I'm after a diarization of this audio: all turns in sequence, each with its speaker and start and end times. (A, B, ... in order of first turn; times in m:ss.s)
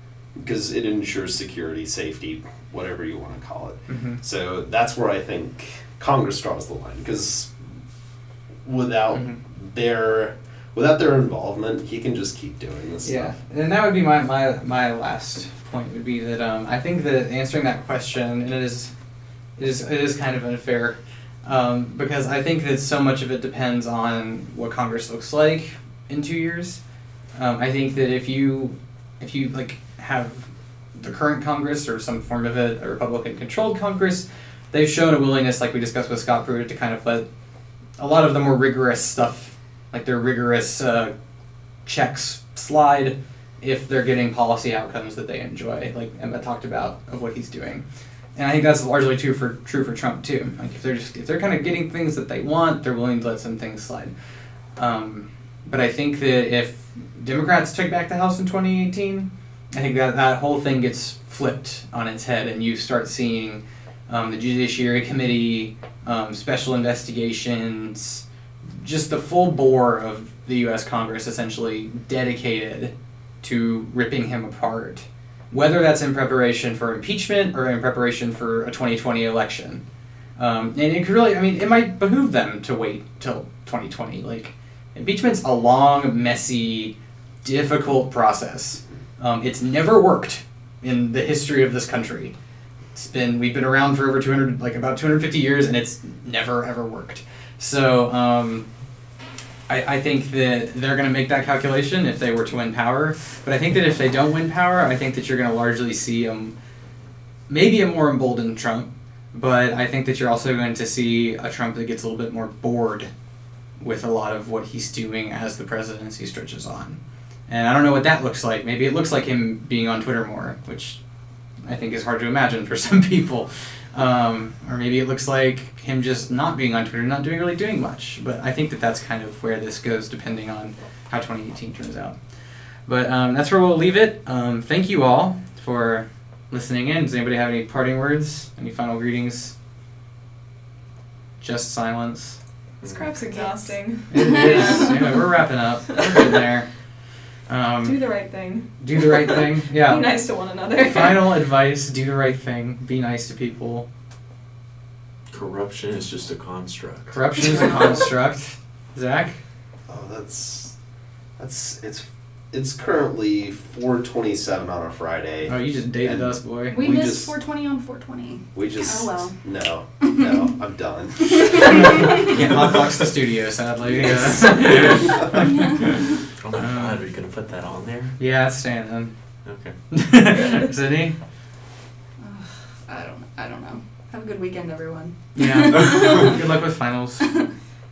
0:00.4-0:07.5 A
0:03.9-0:04.2 B
0:08.6-0:13.3 A
0:09.1-0:09.4 B
0:13.0-0:18.9 B
0:19.6-0:26.8 B
0:27.4-0:37.3 B
0:38.0-0:41.1 B
0:41.8-0:47.8 B
0:48.4-0:54.1 B
0:54.8-1:08.2 B
1:08.8-1:19.8 B
1:20.4-1:32.4 B
1:33.0-1:38.7 B
1:39.7-1:46.5 B
1:47.5-1:53.1 B
1:53.8-2:01.0 B
2:01.7-2:12.2 B
2:12.9-2:19.5 B
2:21.4-2:22.4 B
2:22.9-2:25.3 C
2:23.3-2:25.0 D
2:24.1-2:26.7 B
2:27.5-2:28.0 B
2:27.8-2:31.4 C
2:28.8-2:30.2 B
2:30.7-2:33.9 B
2:35.3-2:37.1 E
2:37.1-2:39.4 B
2:37.5-2:38.0 D
2:39.9-2:40.8 A
2:41.4-2:47.3 A
2:45.5-2:46.8 B
2:46.7-2:49.4 D
2:48.6-2:52.0 A
2:51.4-2:52.0 D
2:51.8-2:55.9 B
2:52.5-2:52.8 A
2:54.0-2:55.4 A
2:55.5-2:56.0 D
2:56.4-2:58.2 E
2:56.6-2:57.0 B
2:58.2-2:59.1 B
2:59.4-2:59.8 E
2:59.9-3:01.2 B
3:02.2-3:06.4 D
3:05.4-3:07.4 B